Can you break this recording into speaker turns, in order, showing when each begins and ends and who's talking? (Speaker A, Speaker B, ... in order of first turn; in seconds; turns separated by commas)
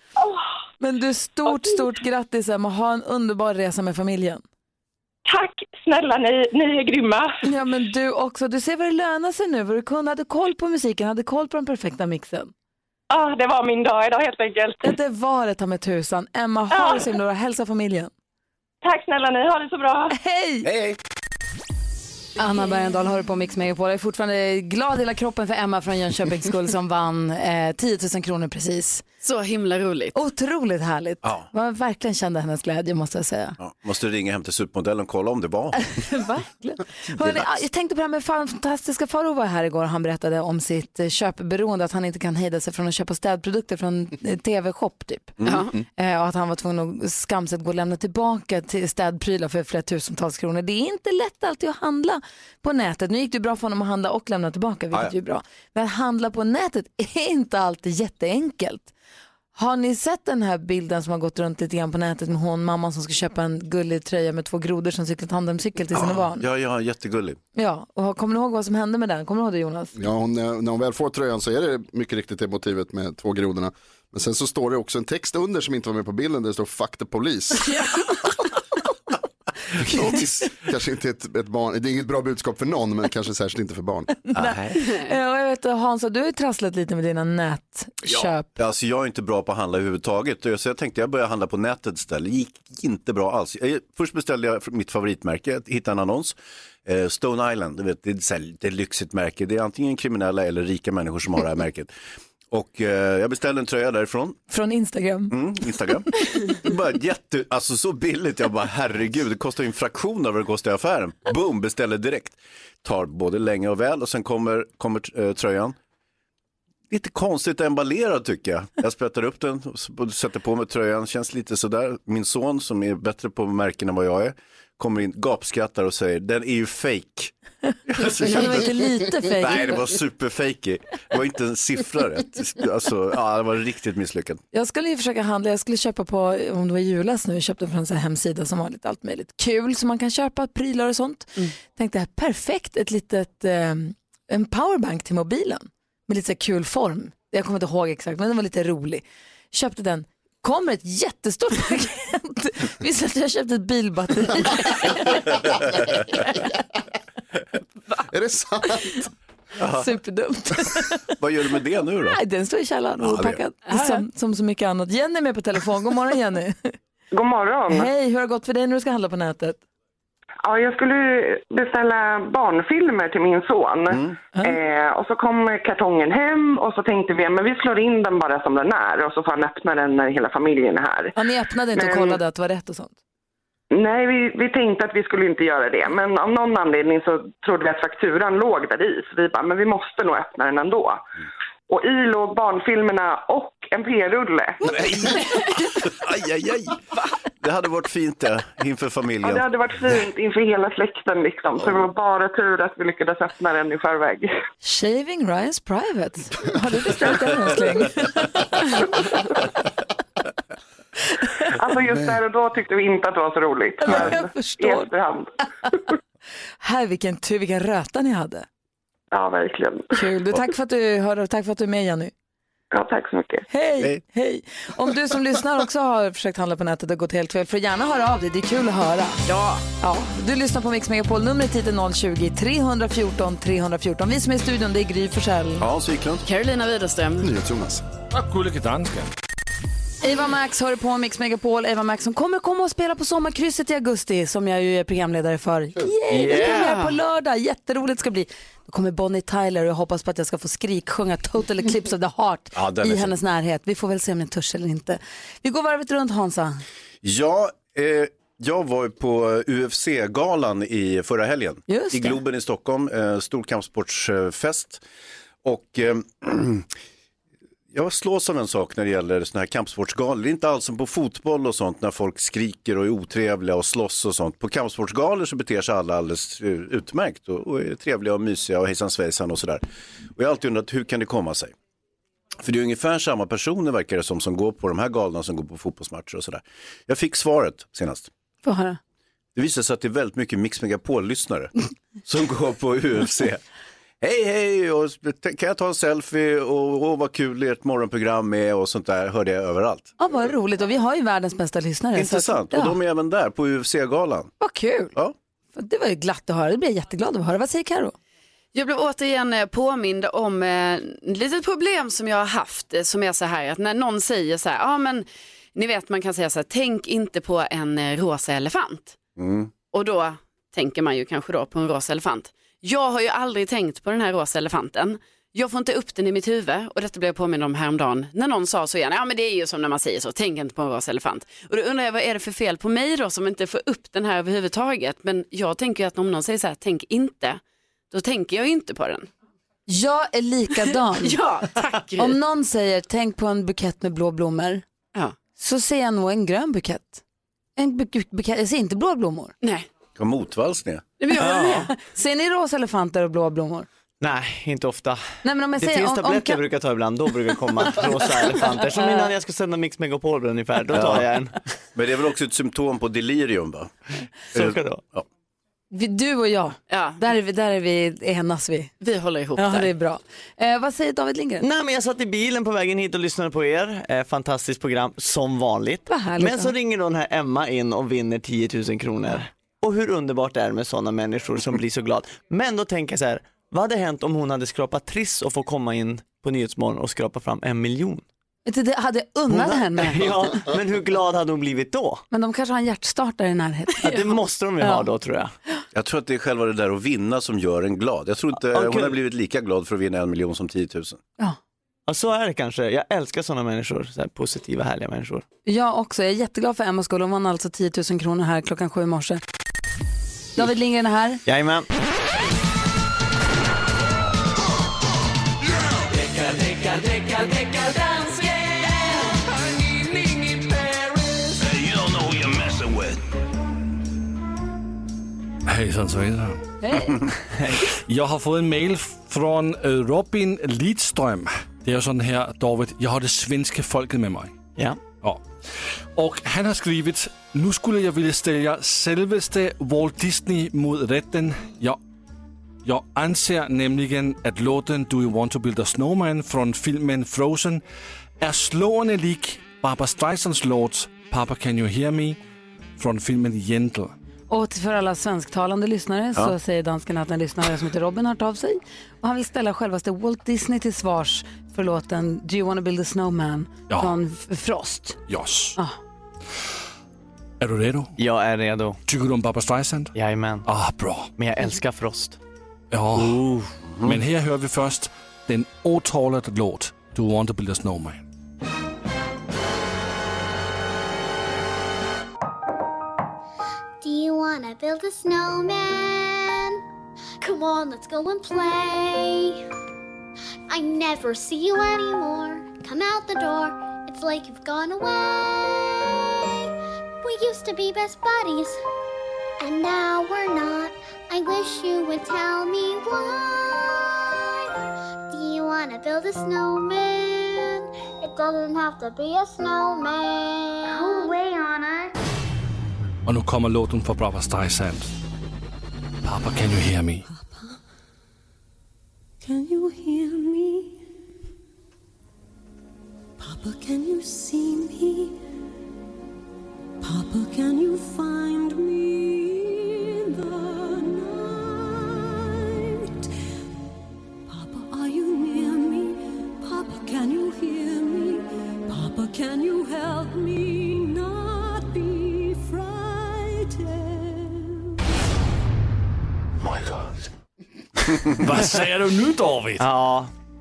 Speaker A: 0.8-4.4, Speaker B: 5.3-7.4, Speaker A: 7.4-12.5, Speaker B: 13.1-14.8, Speaker A: 14.8-18.1, Speaker B: 16.7-17.0, Speaker B: 18.8-20.1, Speaker A: 20.1-20.7, Speaker C: 20.6-21.0, Speaker A: 22.4-29.1, Speaker D: 29.2-30.2, Speaker A: 30.1-33.6, Speaker C: 33.6-35.8, Speaker A: 35.8-58.9, Speaker C: 45.4-45.8, Speaker A: 59.5-66.5, Speaker C: 65.9-67.4, Speaker A: 67.5-69.9, Speaker E: 70.0-77.7, Speaker A: 77.7-78.0, Speaker E: 79.8-84.2, Speaker C: 84.3-84.8, Speaker A: 84.3-88.5, Speaker C: 88.1-101.9, Speaker C: 102.5-104.4, Speaker A: 104.5-105.4, Speaker C: 105.3-115.8, Speaker C: 116.9-127.3, Speaker C: 127.9-128.7, Speaker A: 128.2-129.8, Speaker C: 129.4-134.4, Speaker A: 134.5-155.6, Speaker E: 158.1-159.1, Speaker C: 159.6-159.9, Speaker A: 159.7-161.1, Speaker C: 161.2-162.2, Speaker A: 162.1-166.7, Speaker C: 163.0-163.4, Speaker F: 167.1-167.9, Speaker A: 167.7-169.6, Speaker F: 170.4-181.1, Speaker C: 173.9-174.2, Speaker A: 181.2-183.0, Speaker F: 181.8-182.2, Speaker F: 183.7-191.0, Speaker F: 191.7-194.8, Speaker C: 194.7-196.8, Speaker C: 197.4-199.5, Speaker F: 199.2-204.3, Speaker A: 204.6-209.2, Speaker A: 211.2-211.5, Speaker F: 211.5-215.3, Speaker A: 213.8-214.9, Speaker A: 216.6-218.5, Speaker F: 219.1-220.0, Speaker A: 219.9-222.1, Speaker F: 222.7-223.5, Speaker A: 223.5-229.2, Speaker D: 229.2-229.7, Speaker A: 229.8-235.7, Speaker C: 235.6-236.2, Speaker D: 236.2-237.3, Speaker E: 237.2-237.8, Speaker G: 238.1-239.1, Speaker A: 240.0-256.6, Speaker H: 246.1-246.7, Speaker D: 246.3-247.0, Speaker C: 252.6-253.1, Speaker C: 257.0-264.8, Speaker A: 261.7-262.2, Speaker C: 265.4-266.7, Speaker C: 267.7-279.6, Speaker C: 280.2-281.5, Speaker C: 282.4-288.1, Speaker A: 288.4-288.8, Speaker C: 289.4-291.5, Speaker C: 292.0-293.4, Speaker C: 294.0-299.9, Speaker A: 300.0-302.8, Speaker C: 301.9-304.3, Speaker A: 304.4-304.9, Speaker A: 305.6-307.9, Speaker D: 308.5-319.0, Speaker C: 319.2-319.5, Speaker D: 319.7-339.1, Speaker A: 339.7-341.2, Speaker D: 341.0-342.2, Speaker A: 342.0-344.6, Speaker A: 345.4-347.0, Speaker A: 347.6-349.3, Speaker D: 349.4-349.7, Speaker C: 350.0-350.8, Speaker D: 351.0-351.7, Speaker A: 351.1-353.7, Speaker H: 351.2-351.7, Speaker H: 354.0-355.1, Speaker A: 355.2-356.4, Speaker H: 355.6-361.4, Speaker C: 360.7-361.1, Speaker C: 361.7-363.7, Speaker C: 364.3-365.1, Speaker H: 364.3-364.8, Speaker A: 365.7-368.7, Speaker D: 366.7-367.0, Speaker D: 368.8-369.7, Speaker A: 369.4-371.4, Speaker H: 371.4-388.0, Speaker A: 375.9-376.5, Speaker A: 388.5-390.1, Speaker H: 389.3-392.0, Speaker A: 392.1-394.9, Speaker H: 393.8-395.3, Speaker C: 395.7-401.0, Speaker H: 398.5-399.0, Speaker H: 401.9-405.2, Speaker A: 405.5-409.2, Speaker A: 410.4-411.2, Speaker H: 411.3-411.7, Speaker C: 421.4-423.0, Speaker G: 425.5-426.4, Speaker A: 426.6-427.1, Speaker H: 427.4-427.7, Speaker G: 427.7-434.3, Speaker G: 436.0-441.8, Speaker G: 442.6-447.6, Speaker G: 448.2-452.2, Speaker G: 452.8-453.9, Speaker A: 454.3-465.0, Speaker G: 465.1-465.6, Speaker G: 467.4-467.9, Speaker H: 468.0-468.8, Speaker G: 468.9-469.9, Speaker H: 469.9-470.5, Speaker G: 470.4-471.1, Speaker H: 471.2-472.2, Speaker G: 472.7-473.3, Speaker H: 473.0-473.5, Speaker C: 473.7-474.0, Speaker G: 473.8-478.1, Speaker I: 483.8-486.6, Speaker I: 487.2-489.4, Speaker I: 490.5-496.5, Speaker I: 497.0-498.6, Speaker I: 499.4-504.5, Speaker I: 505.1-511.9, Speaker G: 513.1-514.9, Speaker G: 516.0-517.0, Speaker J: 517.1-517.5, Speaker J: 519.2-520.8, Speaker J: 523.2-525.2, Speaker J: 526.8-533.1, Speaker J: 534.3-544.7, Speaker G: 546.5-546.9, Speaker G: 547.9-549.7, Speaker H: 549.6-550.1